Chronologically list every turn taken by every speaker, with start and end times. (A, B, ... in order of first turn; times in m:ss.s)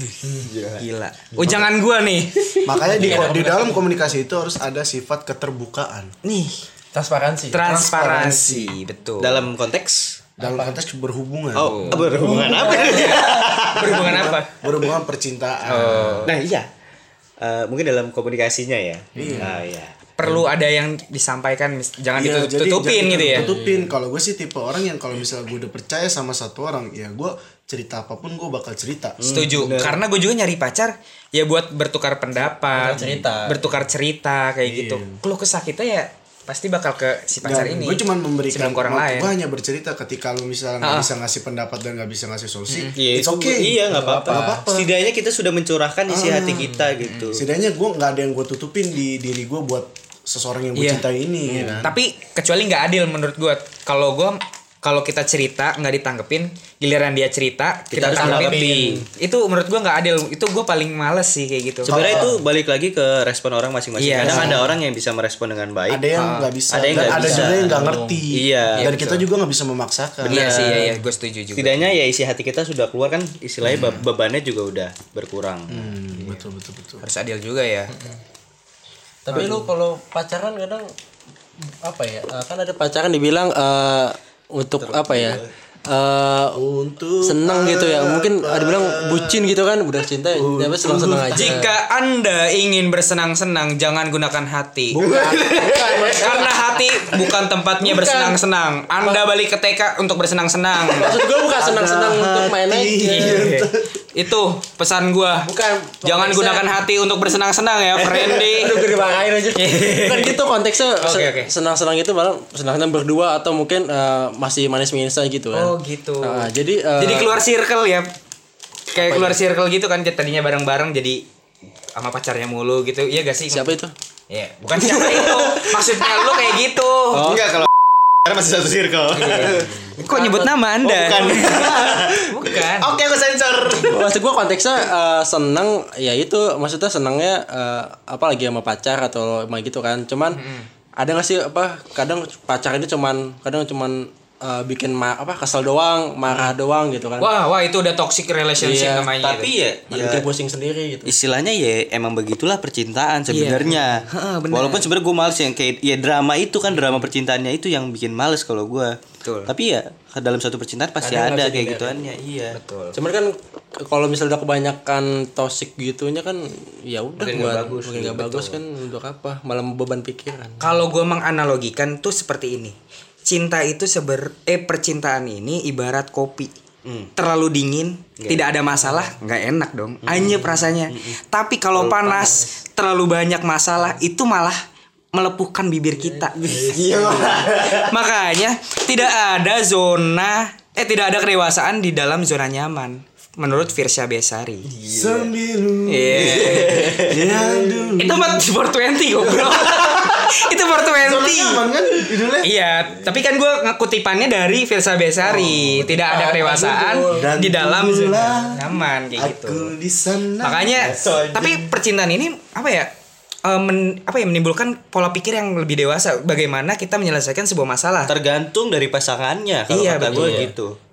0:00.4-0:00.9 A
0:00.8-0:03.4 B
0:02.6-0:06.1 C
0:02.9-0:03.9 D
0:06.2-0:06.6 B
0:06.9-0:08.5 D
0:07.5-0:09.5 B
0:07.8-0:08.8 C
0:09.2-0:10.2 A
0:10.4-0:12.0 C
0:10.4-0:10.8 D
0:11.6-0:14.3 A
0:11.6-0:14.6 B
0:11.9-0:13.5 D
0:13.8-0:16.3 C
0:15.7-0:16.3 B
0:16.2-0:16.7 A
0:17.4-0:19.9 A
0:19.2-0:19.6 C
0:20.2-0:23.5 B
0:22.2-0:29.2 C
0:23.3-0:23.9 D
0:29.2-0:30.0 A
0:29.2-0:39.3 B
0:32.7-0:33.6 D
0:34.6-0:35.2 C
0:37.4-0:44.9 C
0:40.8-0:41.1 B
0:42.7-0:43.0 B
0:43.0-0:47.4 A
0:43.9-0:44.6 D
0:46.1-0:46.8 C
0:47.0-0:47.4 B
0:47.3-0:52.0 C
0:50.8-0:51.0 B
0:51.5-0:51.8 D
0:51.8-1:02.2 B
0:57.9-0:58.7 A
0:58.0-0:59.1 D
1:01.8-1:02.4 D
1:01.9-1:06.0 A
1:02.0-1:02.3 C
1:04.0-1:04.6 B
1:04.2-1:04.7 C
1:04.3-1:04.7 D
1:05.9-1:10.6 C
1:06.2-1:06.5 B
1:06.7-1:07.8 A
1:06.9-1:08.2 D
1:08.3-1:08.9 A
1:08.7-1:09.3 B
1:10.2-1:10.9 A
1:10.3-1:11.9 B
1:10.6-1:11.0 D
1:11.6-1:16.0 A
1:13.6-1:14.1 B
1:15.7-1:17.0 C
1:17.0-1:17.9 B
1:17.9-1:18.2 D
1:19.3-1:20.9 D
1:21.7-1:26.6 D
1:24.8-1:25.5 A
1:26.6-1:29.5 C
1:27.2-1:31.7 D
1:30.3-1:31.6 C
1:31.3-1:35.0 B
1:34.9-1:36.0 C
1:35.0-1:36.7 D
1:35.4-1:35.7 A
1:36.1-1:41.2 B
1:37.8-1:38.4 D
1:40.9-1:43.4 D
1:41.4-1:43.9 C
1:43.1-1:45.5 B
1:45.4-1:46.8 D
1:46.0-1:48.9 B
1:48.2-1:57.3 D
1:49.6-1:50.4 B
1:51.0-1:51.5 B
1:55.5-1:58.1 B
1:58.9-2:01.2 B
1:59.0-1:59.4 D
2:02.0-2:03.8 B
2:03.5-2:03.9 D
2:04.3-2:07.4 B
2:07.1-2:14.0 A
2:07.2-2:07.6 D
2:09.1-2:13.0 B
2:13.8-2:20.4 D
2:20.3-2:20.7 B
2:21.0-2:27.3 D
2:27.2-2:29.5 B
2:28.6-2:29.1 D
2:29.2-2:30.3 A
2:29.9-2:31.2 D
2:31.1-2:42.6 A
2:33.3-2:34.9 B
2:36.7-2:37.0 B
2:39.2-2:39.5 B
2:41.0-2:42.0 D
2:42.5-2:43.0 B
2:42.9-2:50.8 D
2:47.2-2:48.6 A
2:50.6-2:56.5 B
2:56.8-2:57.1 A
2:57.2-3:04.6 B
2:58.2-2:58.5 A
2:58.8-2:59.1 D
3:00.0-3:01.2 A
3:01.8-3:02.4 A
3:02.2-3:02.6 D
3:05.1-3:06.9 B
3:06.0-3:07.3 D
3:06.6-3:07.9 A
3:06.8-3:07.5 C
3:07.7-3:14.7 B
3:14.6-3:15.3 A
3:14.9-3:18.4 C
3:15.9-3:17.0 B
3:16.1-3:17.4 A
3:18.0-3:21.7 B
3:19.2-3:22.5 C
3:22.4-3:29.7 B
3:25.3-3:25.6 C
3:25.7-3:27.3 D
3:27.0-3:30.9 C
3:30.4-3:32.9 B
3:30.8-3:31.7 A
3:33.4-3:38.1 B
3:38.1-3:40.8 A
3:39.7-3:40.5 B
3:40.1-3:40.5 D